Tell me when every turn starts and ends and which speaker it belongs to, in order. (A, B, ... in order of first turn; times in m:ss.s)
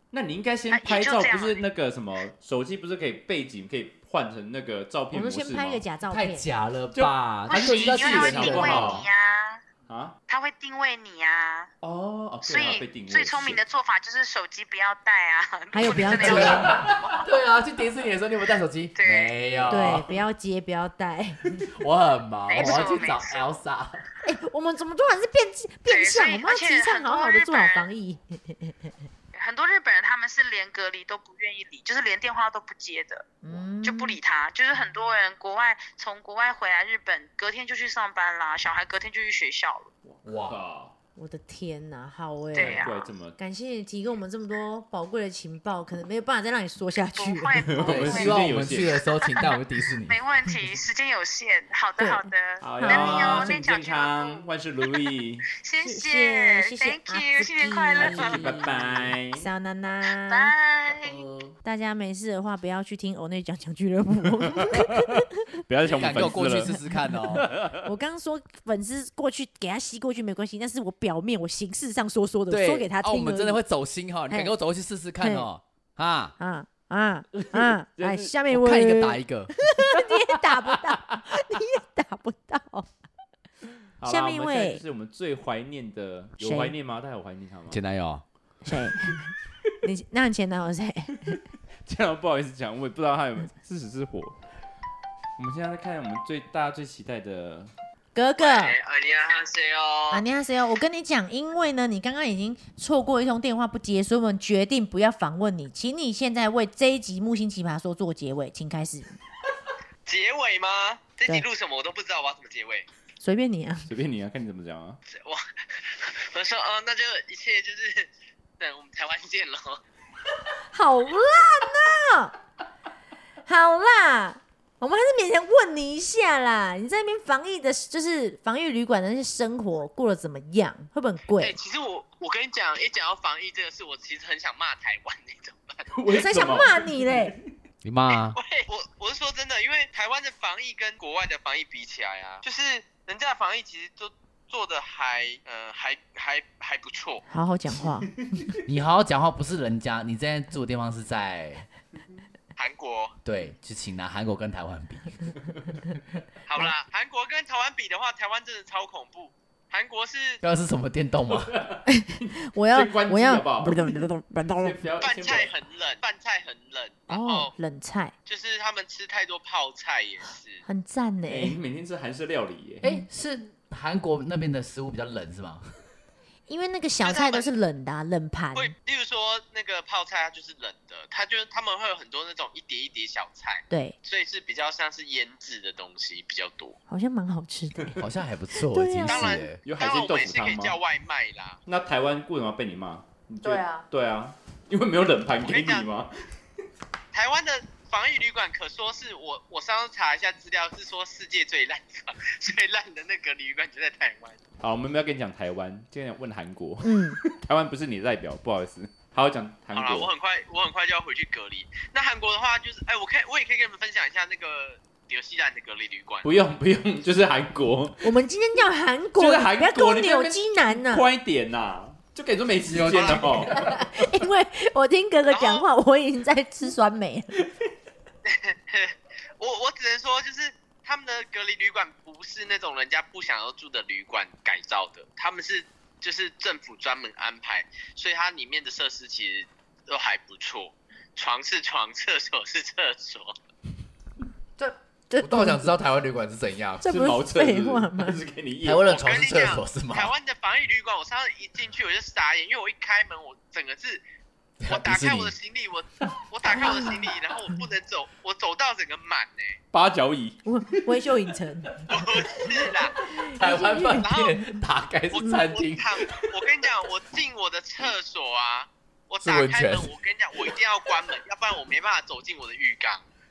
0:00.1-0:05.8 A
0:00.7-0:01.6 B
0:05.1-0:06.5 C
0:06.1-0:09.0 D
0:06.9-0:09.1 A
0:07.5-0:09.6 B
0:09.9-0:10.2 A
0:10.3-0:11.7 B
0:11.8-0:13.6 A
0:12.4-0:16.7 B
0:15.7-0:16.8 C
0:16.1-0:16.9 A
0:16.1-0:20.1 D
0:18.9-0:19.4 B
0:19.7-0:21.6 C
0:21.7-0:24.0 D
0:22.5-0:23.5 B
0:24.2-0:28.8 C
0:25.9-0:27.9 B
0:29.3-0:33.3 B
0:33.4-0:34.2 C
0:33.8-0:39.9 B
0:40.0-0:40.9 A
0:40.2-0:40.6 D
0:41.2-0:47.6 C
0:42.5-0:43.0 B
0:42.5-0:43.4 A
0:47.2-0:58.6 B
0:47.7-0:49.0 A
0:47.8-0:50.2 D
0:52.0-0:53.5 C
0:52.6-0:55.4 A
0:55.8-1:00.5 C
0:58.0-0:59.4 A
1:00.3-1:01.2 B
1:01.6-1:05.2 C
1:05.7-1:07.8 A
1:05.8-1:07.4 D
1:06.3-1:13.6 C
1:12.5-1:16.3 D
1:15.2-1:15.5 C
1:16.4-1:22.9 C
1:17.3-1:18.3 A
1:18.5-1:19.5 D
1:24.0-1:27.8 A
1:24.0-1:24.8 C
1:26.4-1:26.7 C
1:27.7-1:28.2 D
1:28.6-1:31.4 C
1:31.8-1:34.4 A
1:35.4-1:37.7 A
1:38.1-1:38.7 C
1:38.4-1:40.2 E
1:40.1-1:49.1 C
1:50.0-1:52.9 E
1:53.2-1:53.9 C
1:53.9-1:55.0 A
1:55.1-1:59.8 E
2:00.7-2:02.3 C
2:03.4-2:11.5 C
2:11.4-2:15.8 E
2:15.9-2:17.2 A
2:16.1-2:17.3 C
2:17.8-2:18.4 D
2:18.1-2:27.2 E
2:27.3-2:28.4 C
2:28.6-2:31.6 D
2:32.6-2:33.2 E
2:33.2-2:35.3 D
2:36.5-2:40.4 E
2:40.4-2:41.5 D
2:41.3-2:43.8 A
2:41.9-2:44.8 C
2:44.5-2:45.5 A
2:45.0-2:47.5 E
2:47.1-2:48.1 C
2:48.2-2:50.6 E
2:50.6-2:51.6 C
2:51.3-2:52.8 A
2:52.8-2:55.6 D
2:56.5-2:58.7 C
2:57.0-2:57.5 E
2:58.5-3:06.8 E
3:03.7-3:04.0 C
3:06.9-3:08.0 C
3:08.0-3:09.6 D
3:08.7-3:09.4 C
3:09.1-3:11.6 E
3:09.6-3:10.8 A
3:11.6-3:16.1 A
3:13.4-3:13.9 C
3:15.5-3:15.9 E
3:17.1-3:24.4 E
3:24.6-3:30.1 A
3:26.8-3:27.2 C
3:29.7-3:36.2 E
3:36.2-3:38.2 A
3:38.0-3:41.0 C
3:39.2-3:43.6 A
3:42.7-3:43.8 D
3:42.8-3:43.3 E
3:43.5-3:47.3 C
3:45.3-3:45.6 E
3:48.2-4:03.3 E
4:04.6-4:05.7 C
4:05.2-4:06.8 D
4:06.8-4:08.2 C
4:06.8-4:08.8 A
4:08.6-4:10.1 D
4:08.8-4:14.0 E
4:14.6-4:15.3 D
4:14.7-4:19.6 E
4:16.5-4:16.9 C
4:19.7-4:20.4 A
4:20.4-4:24.1 C
4:21.9-4:22.9 E
4:23.3-4:26.5 D
4:23.9-4:24.4 E
4:25.1-4:33.0 E
4:29.2-4:30.6 D